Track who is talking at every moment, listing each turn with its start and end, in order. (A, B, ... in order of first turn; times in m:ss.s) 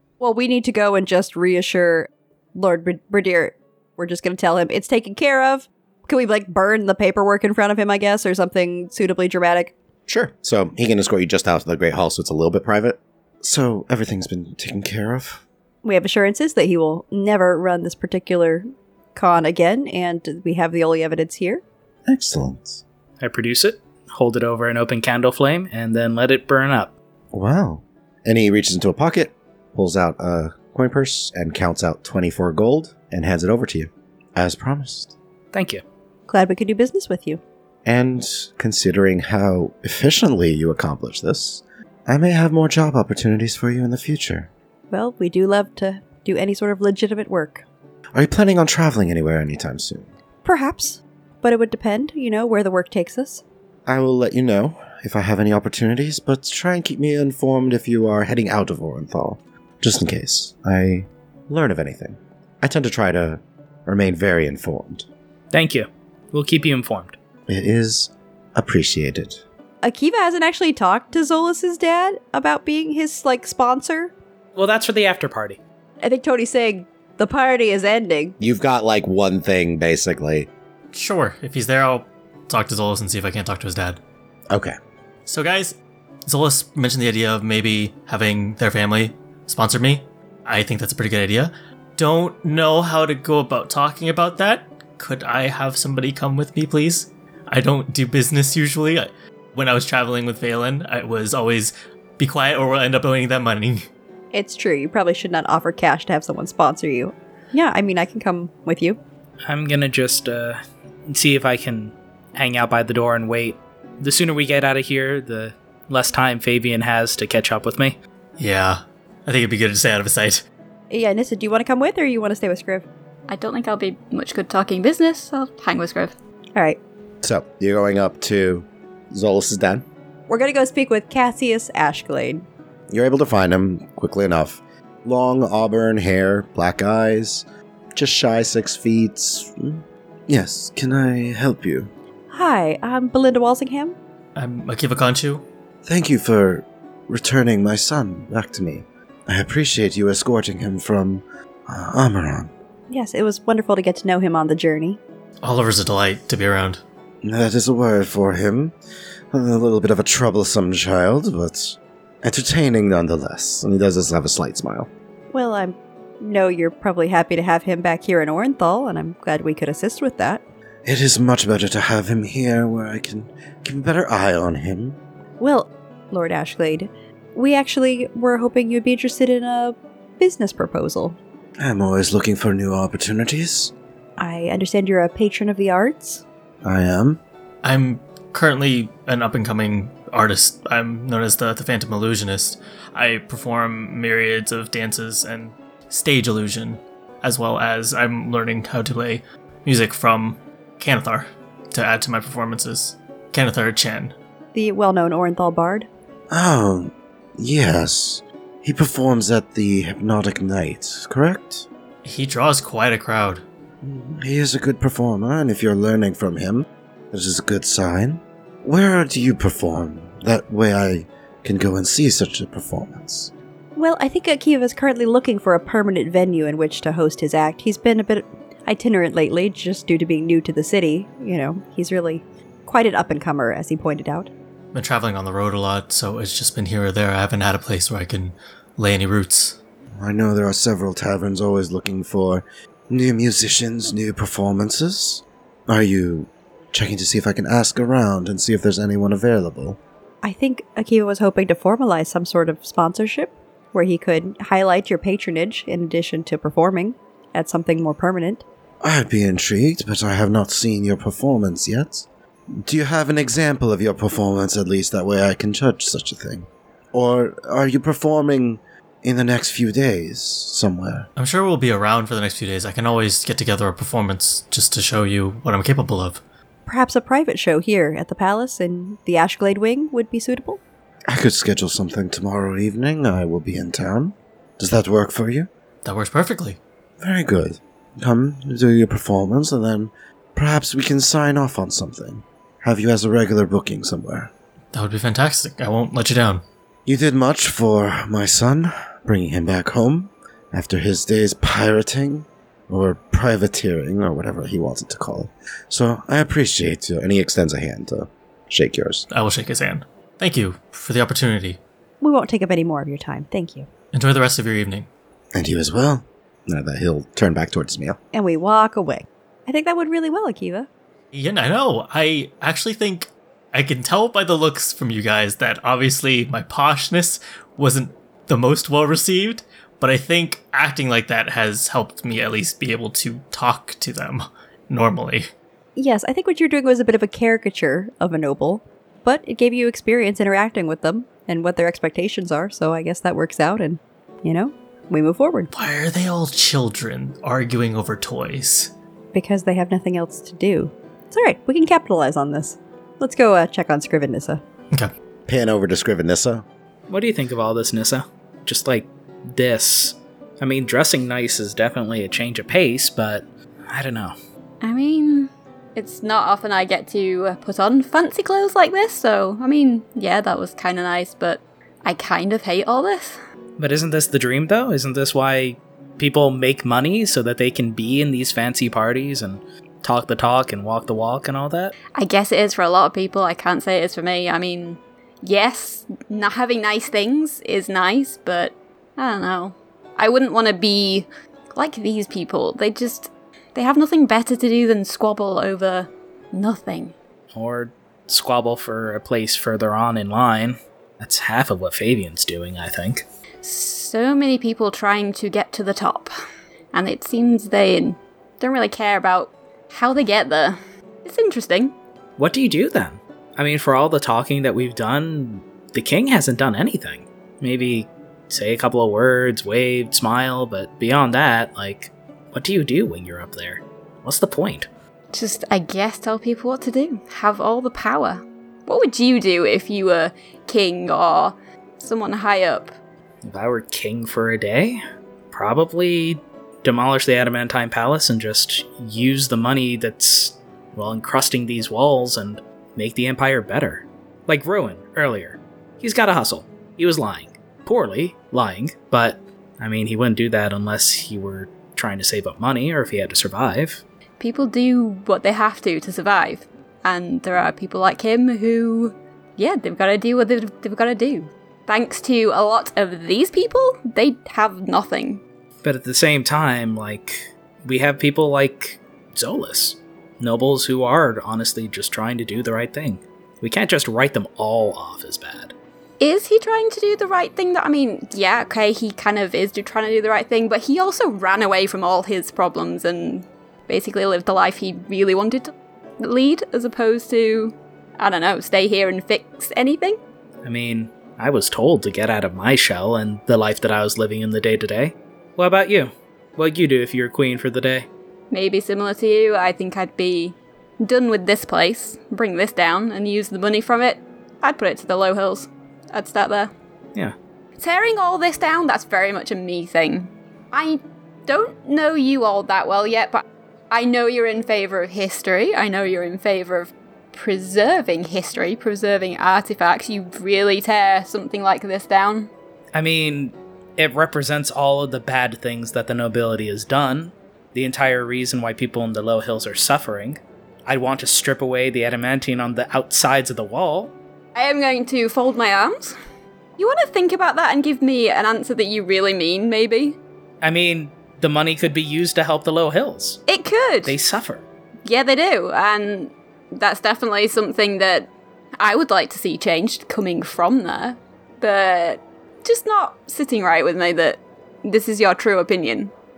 0:00.2-0:09.7 A
0:10.1-0:15.4 B
0:15.8-0:21.6 A
0:22.1-0:22.8 B
0:23.2-0:26.9 C
0:27.3-0:35.1 B
0:35.5-0:35.8 C
0:36.3-0:37.4 A
0:37.9-0:44.5 B
0:44.9-0:47.6 A
0:48.2-0:50.1 B
0:50.4-0:53.4 A
0:53.9-1:05.1 B
1:05.5-1:07.2 C
1:07.5-1:09.4 B
1:09.8-1:14.1 A
1:14.6-1:15.6 C
1:16.0-1:18.4 A
1:18.4-1:20.5 B
1:20.9-1:24.0 D
1:24.5-1:24.8 B
1:25.3-1:43.9 D
1:44.3-1:49.0 A
1:49.5-1:58.0 C
1:58.4-2:00.4 D
2:00.9-2:02.9 A
2:03.3-2:06.1 E
2:07.2-2:09.8 B
2:10.3-2:12.4 A
2:12.9-2:17.4 B
2:18.0-2:21.9 B
2:22.3-2:24.0 A
2:24.4-2:25.4 D
2:25.8-2:32.5 B
2:32.9-2:35.0 A
2:35.4-2:36.8 D
2:37.2-2:38.7 B
2:39.3-2:44.9 B
2:45.3-2:50.4 A
2:50.8-2:55.0 B
2:55.4-3:01.2 A
3:01.6-3:03.7 B
3:04.2-3:06.2 A
3:06.6-3:07.2 B
3:07.6-3:24.2 D
3:24.5-3:25.9 A
3:26.3-3:31.7 B
3:32.0-3:33.4 D
3:33.8-3:43.3 B
3:43.8-3:54.3 A
3:54.7-3:59.6 D
4:00.0-4:09.8 B
4:10.2-4:18.4 A
4:18.8-4:31.1 B
4:31.2-4:36.2 D
4:36.7-4:40.6 A
4:41.1-4:45.5 B
4:45.8-4:46.6 D
4:47.0-4:54.3 B
4:54.7-4:56.4 D
4:56.9-5:09.1 B
5:09.1-5:11.6 D
5:12.0-5:13.7 A
5:13.9-5:14.9 D
5:15.4-5:18.0 B
5:18.1-5:20.7 A
5:21.1-5:35.3 D
5:35.8-5:45.5 A
5:45.5-5:48.7 D
5:49.1-5:54.4 A
5:55.3-5:56.4 B
5:56.9-6:04.2 C
6:04.6-6:13.2 E
6:13.6-6:21.8 C
6:22.0-6:36.9 E
6:37.3-6:43.0 C
6:43.4-6:46.1 E
6:46.7-6:51.8 E
6:52.2-7:04.7 C
7:05.1-7:12.7 E
7:13.2-7:33.8 C
7:34.2-7:45.2 E
7:45.6-7:55.5 C
7:56.0-8:10.0 E
8:10.4-8:17.9 C
8:18.3-8:26.5 E
8:27.6-8:42.3 E
8:42.7-8:53.9 C
8:54.4-8:56.0 E
8:56.6-9:00.0 E
9:00.4-9:03.2 C
9:03.3-9:04.0 E
9:03.9-9:04.4 C
9:04.9-9:15.9 E